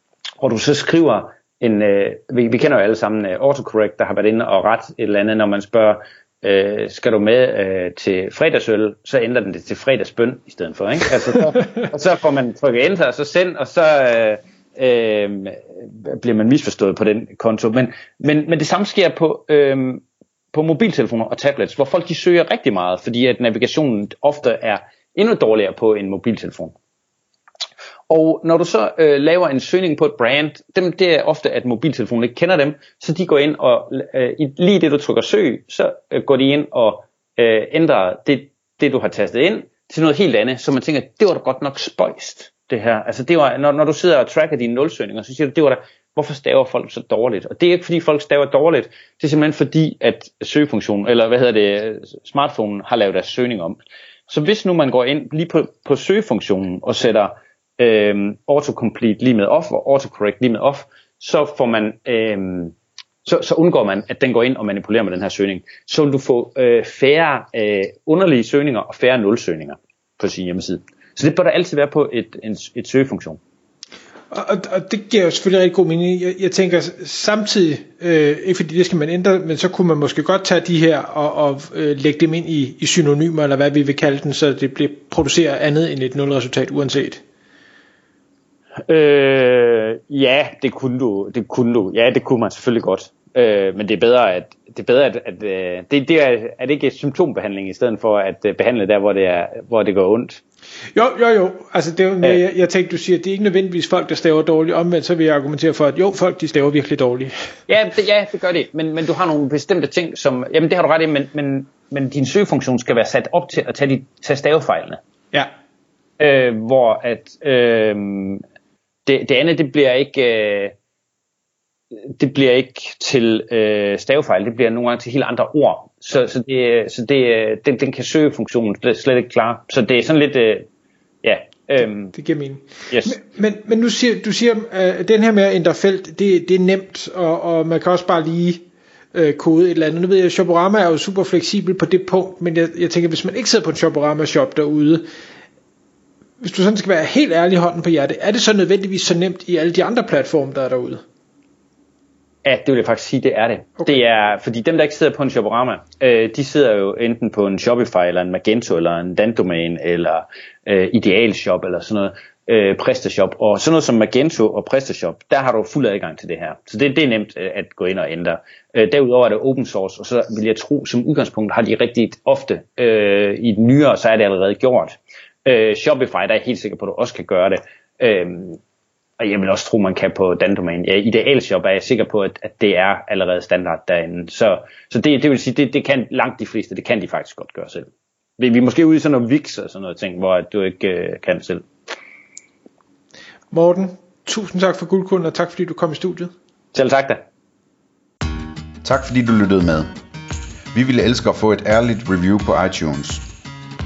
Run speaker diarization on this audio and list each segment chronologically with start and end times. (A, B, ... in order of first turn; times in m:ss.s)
0:00.4-0:26.7 A
0:28.1-1:13.4 A
1:14.3-1:27.2 B
1:28.9-1:40.4 A
1:40.9-1:47.3 B
1:47.7-1:55.0 A
1:56.2-1:58.4 A
1:59.0-2:00.7 A
2:02.1-2:10.7 A
2:11.2-2:12.1 A
2:11.8-2:25.0 B
2:26.4-2:31.0 B
2:32.4-2:58.6 A
2:59.2-3:07.9 A
3:08.4-3:11.6 A
3:13.5-3:16.3 B
3:16.7-3:17.2 A
3:18.8-3:19.9 C
3:20.7-3:23.2 C